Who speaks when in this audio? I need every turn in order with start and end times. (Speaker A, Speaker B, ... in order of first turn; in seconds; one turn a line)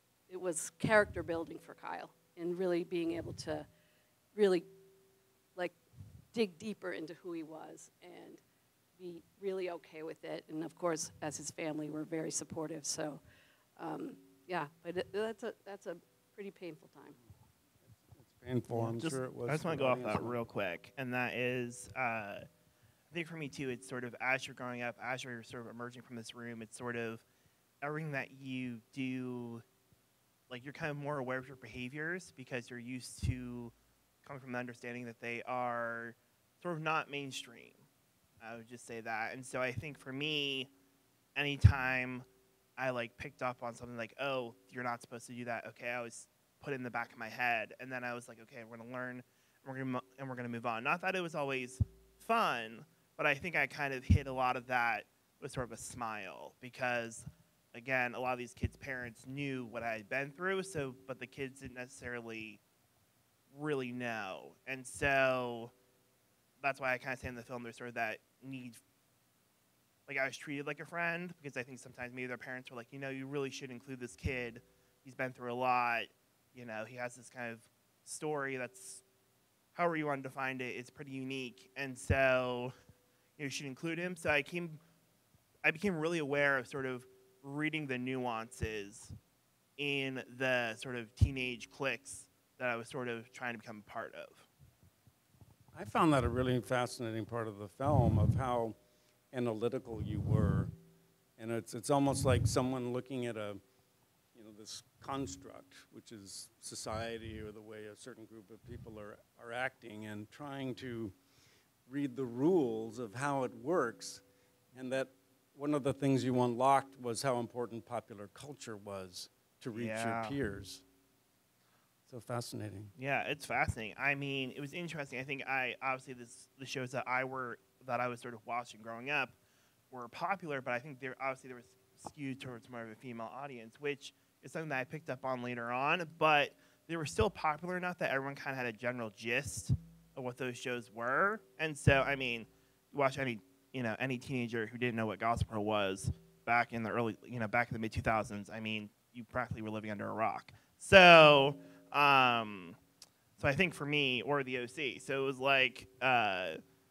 Speaker A: 0.3-3.6
Speaker A: 4.3-4.7
Speaker A: 6.3-8.4
Speaker A: 9.0-13.2
Speaker A: 13.8-17.2
Speaker B: 17.9-20.4
Speaker C: 18.7-22.4
Speaker C: 23.1-27.2
Speaker C: 27.8-29.6
Speaker C: 30.5-33.7
Speaker C: 34.2-37.8
Speaker C: 38.4-40.7
Speaker C: 41.4-42.2
Speaker C: 42.8-62.6
Speaker C: 63.5-65.7
Speaker C: 66.6-68.8
Speaker C: 70.1-79.0
Speaker C: 79.7-82.7
Speaker C: 83.4-84.8
Speaker C: 85.6-89.1
Speaker C: 89.8-94.5
Speaker B: 95.7-98.8
Speaker B: 99.3-100.7
Speaker B: 101.4-103.6
Speaker B: 104.3-111.1
Speaker B: 111.9-114.2
Speaker B: 114.7-120.8
Speaker C: 119.7-120.4
Speaker B: 122.1-122.9
Speaker C: 123.0-129.3
Speaker C: 129.9-152.8
Speaker C: 153.4-156.6